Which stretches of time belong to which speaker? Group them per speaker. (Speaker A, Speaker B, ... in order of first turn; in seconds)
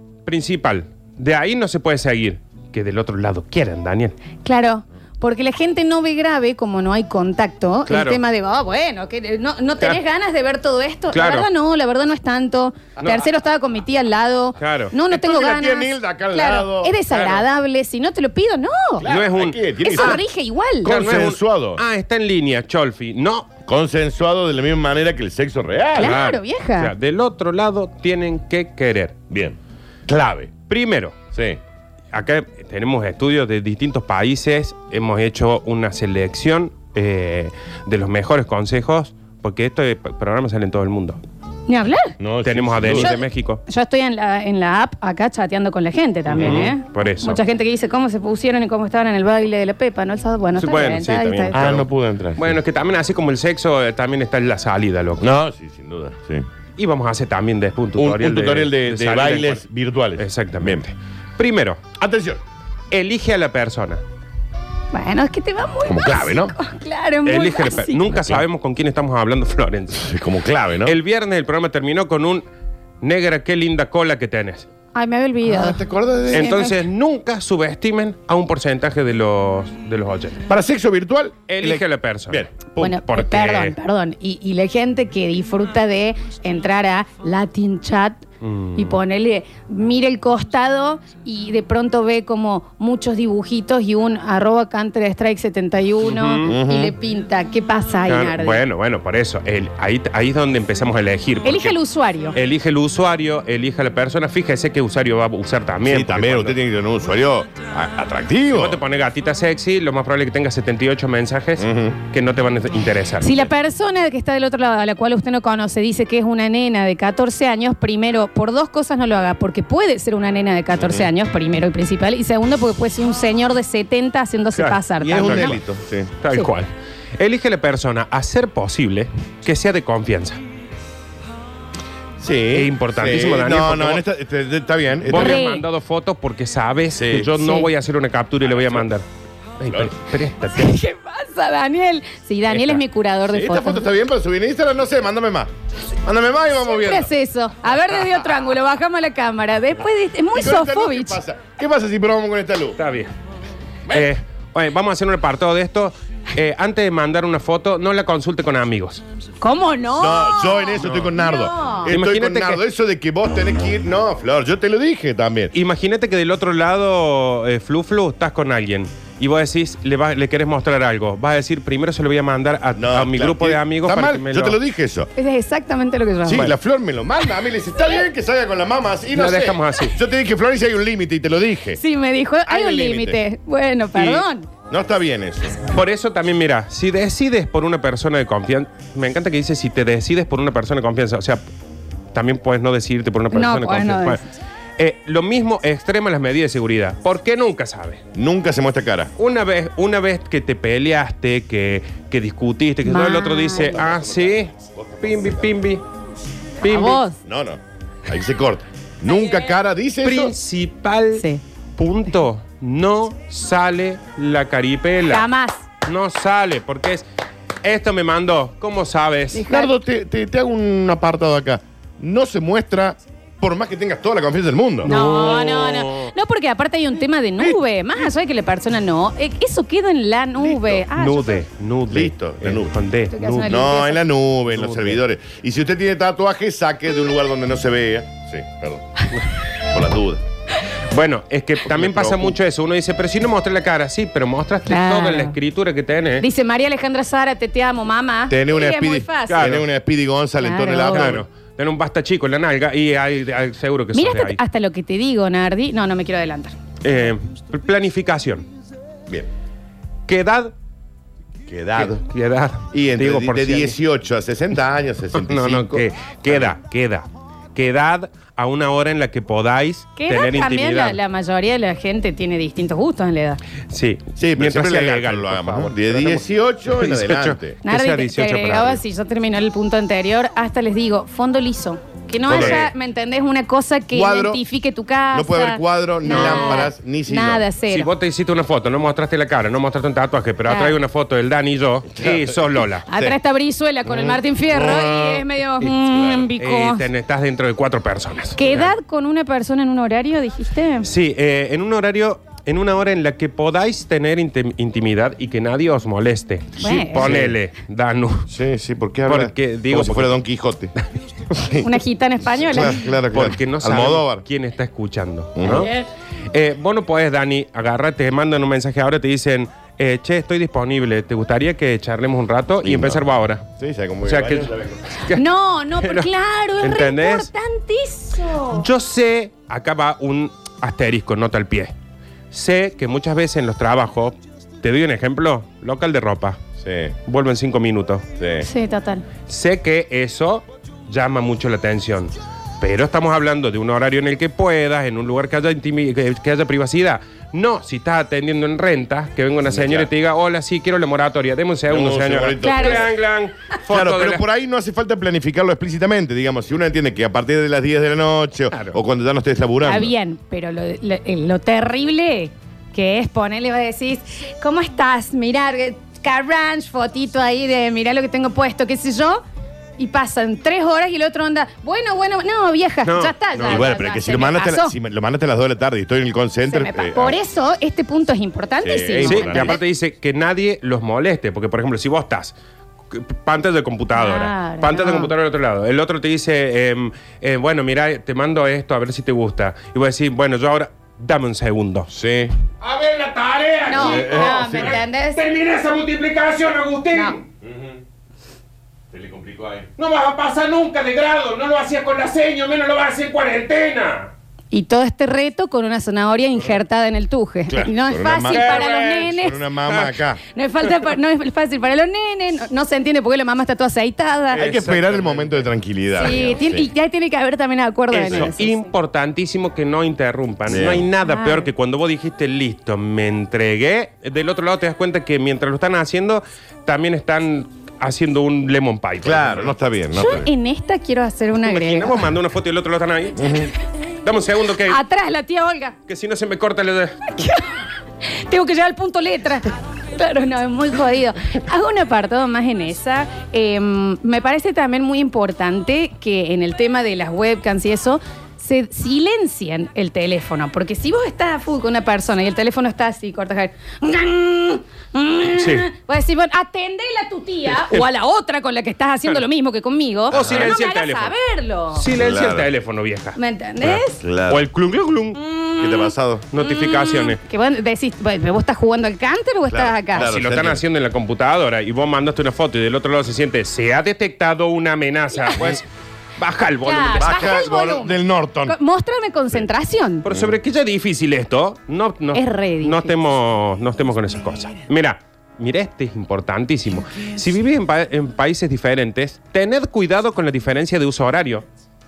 Speaker A: 0.2-4.2, 7.9-8.2, 11.1-11.5, 14.6-14.9, 17.1-17.4, 19.1-20.2, 20.8-23.5, 26.0-29.2, 30.7-31.2, 32.1-41.2, 42.4-43.6, 46.4-47.4, 50.6-55.3, 56.8-59.6, 60.2-61.9, 62.9-64.0, 67.2-70.2, 70.8-72.4, 73.0-74.7, 76.3-80.5, 81.5-83.8, 88.4-88.9, 96.0-96.5, 98.1-101.8, 102.3-106.6, 108.5-113.5, 124.5-125.6, 126.2-130.4, 132.5-134.0, 135.1-139.1, 139.6-140.7, 142.5-142.8, 152.8-153.1, 153.9-159.0, 160.8-161.1, 161.9-162.6, 165.5-174.6, 179.1-180.0, 183.9-184.2, 185.7-191.4, 192.1-194.2, 194.8-198.0, 199.2-205.8, 206.6-207.0, 210.0-215.3, 215.8-217.0, 217.6-219.4, 224.8-226.1, 230.9-233.5, 234.5-235.0, 240.9-246.3, 249.3-249.7, 250.8-254.4, 256.8-258.5, 260.1-260.5, 261.8-263.8, 265.1-271.0, 273.7-278.8, 282.3-282.7, 286.1-286.7, 287.7-292.9, 296.4-298.7, 300.8-308.3, 309.1-310.2, 313.1-315.7, 316.3-323.4, 324.0-325.2, 325.8-326.1, 326.6-327.3, 328.5-331.7, 332.3-336.4, 337.1-338.0, 339.3-354.2, 372.9-373.7, 379.0-382.3, 382.9-391.9, 392.6-397.3, 399.8-404.1, 408.3-409.1, 409.7-410.0, 414.3-415.5, 416.0-416.4, 417.9-429.5, 431.4-433.5, 434.0-434.8, 435.9-437.0, 455.4-455.7, 460.1-461.1, 461.8-465.2, 466.3-467.2, 470.0-475.6, 476.2-477.3, 480.0-491.4
Speaker B: 4.5-19.1, 19.8-20.9, 26.0-26.9, 41.7-42.1, 42.9-51.7, 64.9-68.1, 74.9-76.8, 82.8-88.2, 88.8-98.6, 101.4-102.4, 113.2-125.6, 135.1-135.6, 137.3-137.7, 140.6-143.8, 146.7-151.2, 159.4-161.9, 175.2-176.5, 181.8-184.5, 193.3-194.2, 202.8-203.8, 206.6-207.2, 211.2-211.4, 215.1-215.7, 219.3-219.7, 224.8-231.4, 233.1-234.0, 244.7-245.3, 246.2-249.4, 250.4-251.2, 253.9-256.6, 270.0-273.4, 277.6-287.9, 290.5-290.8, 292.9-296.9, 298.4-300.9, 306.6-307.1, 311.6-312.9, 315.4-315.9, 325.1-328.7, 338.4-339.1, 352.4-352.9, 359.6-369.2, 369.8-374.8, 376.5-379.6, 383.9-385.1, 393.7-395.2, 404.5-409.4, 410.3-414.5, 416.0-418.7, 421.0-421.5, 429.9-432.1, 434.6-435.8, 437.1-461.9, 463.2-464.0, 465.1-470.1, 475.1-475.4, 476.6-480.1, 482.1-482.9
Speaker C: 15.1-17.0, 19.0-20.2, 20.8-21.8, 23.7-26.2, 29.3-30.5, 31.3-31.6, 42.2-43.1, 46.3-46.7, 51.5-52.6, 55.2-56.5, 58.0-60.9, 62.0-62.4, 65.8-66.5, 68.1-68.4, 70.0-71.0, 75.5-76.5, 80.5-82.7, 96.5-97.0, 105.8-108.8, 111.6-112.0, 120.8-121.1, 125.0-126.1, 132.2-135.4, 136.9-137.3, 138.6-138.8, 143.3-145.5, 146.0-147.1, 150.3-152.8, 160.0-165.5, 172.8-175.1, 176.2-181.8, 182.5-183.2, 184.7-185.7, 198.1-199.1, 203.6-205.6, 207.2-210.3, 219.5-224.9, 230.4-230.8, 231.9-232.8, 233.4-240.2, 241.7-242.4, 248.3-251.2, 261.5-262.0, 262.7-266.5, 274.2-277.6, 282.3-282.7, 283.9-284.4, 285.1-287.4, 292.0-293.2, 293.9-295.3, 295.8-296.3, 307.0-307.4, 308.3-310.7, 311.3-311.7, 312.4-314.2, 315.4-315.7, 322.6-323.0, 323.6-324.9, 336.6-337.0, 338.2-338.5, 349.5-349.9, 351.7-352.9, 353.7-359.9, 373.5-377.2, 378.6-379.6, 391.9-392.3, 393.7-394.8, 397.4-397.8, 398.9-399.7, 407.5-410.2, 414.3-416.7, 420.5-420.9, 429.0-430.3, 433.2-433.5, 460.1-460.5, 461.9-462.5, 463.9-464.5, 465.6-466.3, 469.5-470.6, 477.0-478.6